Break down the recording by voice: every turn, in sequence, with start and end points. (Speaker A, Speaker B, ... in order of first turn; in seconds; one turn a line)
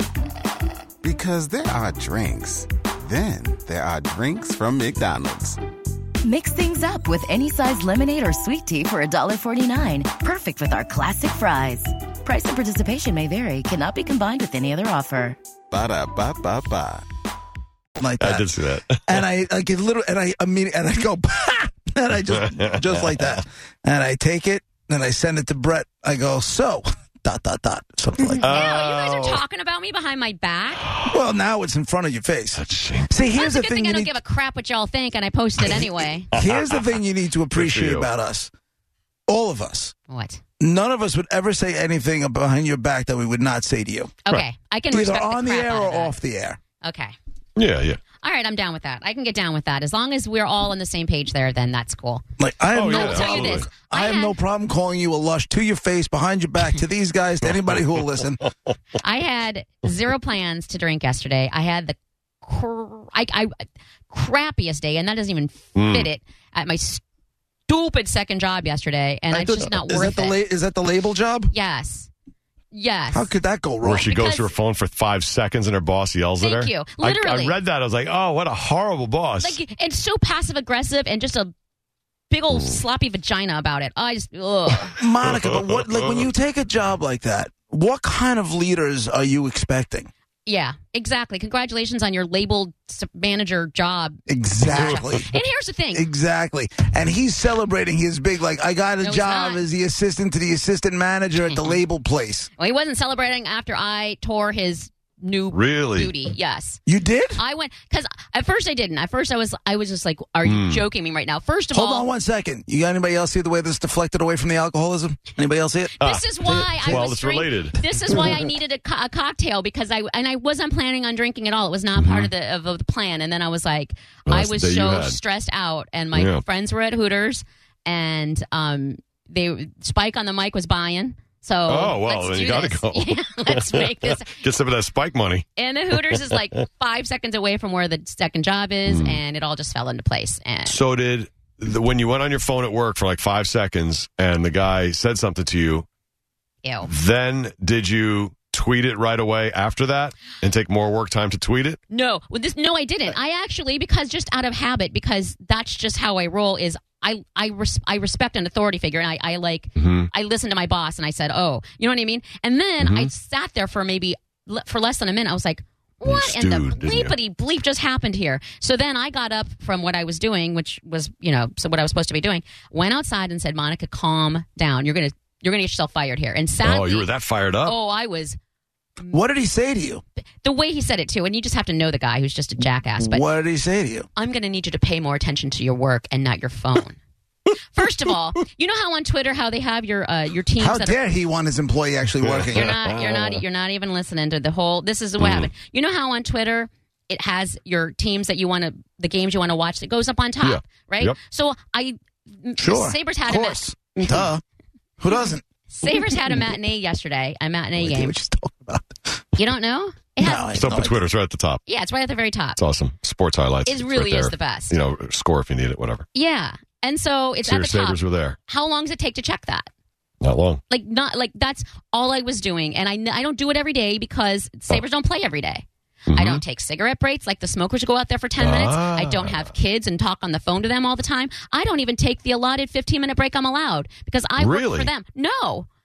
Speaker A: 1.0-5.6
Speaker B: 6.2-15.4
Speaker A: 15.7-17.0
Speaker C: 18.0-28.5
Speaker D: 18.2-19.2
Speaker D: 22.3-23.3
Speaker D: 28.4-29.4
Speaker E: 28.4-30.9
Speaker C: 31.1-34.1
Speaker D: 32.5-33.1
Speaker E: 33.3-36.3
Speaker C: 36.3-38.5
Speaker D: 36.3-36.8
Speaker D: 37.5-38.1
Speaker C: 39.3-39.9
Speaker E: 40.1-40.4
Speaker C: 40.6-44.1
Speaker E: 44.2-46.1
Speaker C: 44.9-46.6
Speaker E: 46.8-47.1
Speaker D: 47.6-48.0
Speaker E: 48.2-52.2
Speaker C: 52.4-58.4
Speaker D: 52.7-53.7
Speaker E: 52.8-54.4
Speaker E: 59.0-63.5
Speaker E: 64.1-67.0
Speaker D: 65.7-66.1
Speaker E: 67.7-70.4
Speaker C: 69.3-71.5
Speaker E: 71.5-72.1
Speaker E: 72.7-73.3
Speaker C: 73.1-74.1
Speaker D: 73.8-79.6
Speaker E: 74.0-74.5
Speaker E: 76.4-77.5
Speaker E: 79.4-81.5
Speaker E: 82.3-85.0
Speaker C: 85.0-90.1
Speaker E: 90.5-96.1
Speaker C: 94.3-95.3
Speaker C: 95.9-102.5
Speaker E: 99.0-99.6
Speaker E: 101.4-101.8
Speaker E: 102.6-106.8
Speaker D: 105.5-106.1
Speaker C: 106.8-107.4
Speaker E: 107.3-112.1
Speaker D: 110.4-110.9
Speaker C: 111.7-117.1
Speaker E: 116.0-134.4
Speaker D: 116.0-117.9
Speaker D: 122.0-122.3
Speaker D: 124.3-125.2
Speaker D: 126.1-126.4
Speaker D: 131.7-135.4
Speaker E: 135.6-140.8
Speaker D: 138.8-139.2
Speaker D: 140.7-145.8
Speaker E: 146.6-146.9
Speaker D: 146.8-151.8
Speaker E: 151.9-177.1
Speaker D: 159.8-160.1
Speaker D: 162.8-163.1
Speaker D: 166.1-167.1
Speaker D: 176.6-177.8
Speaker E: 177.6-178.4
Speaker C: 179.1-180.0
Speaker E: 180.4-183.3
Speaker C: 183.0-184.1
Speaker E: 184.2-187.0
Speaker E: 187.7-191.0
Speaker C: 190.6-192.8
Speaker D: 192.2-193.4
Speaker E: 192.5-204.2
Speaker D: 195.2-195.5
Speaker D: 200.4-201.2
Speaker C: 202.6-204.4
Speaker C: 205.0-205.4
Speaker E: 205.7-208.2
Speaker C: 207.8-209.2
Speaker E: 209.3-210.6
Speaker C: 210.2-210.9
Speaker D: 210.5-211.6
Speaker E: 211.7-212.6
Speaker D: 212.6-216.1
Speaker E: 213.6-214.8
Speaker E: 216.1-219.7
Speaker D: 217.4-218.4
Speaker D: 220.2-220.6
Speaker E: 220.7-235.7
Speaker D: 226.1-226.4
Speaker D: 228.4-229.5
Speaker D: 234.4-234.9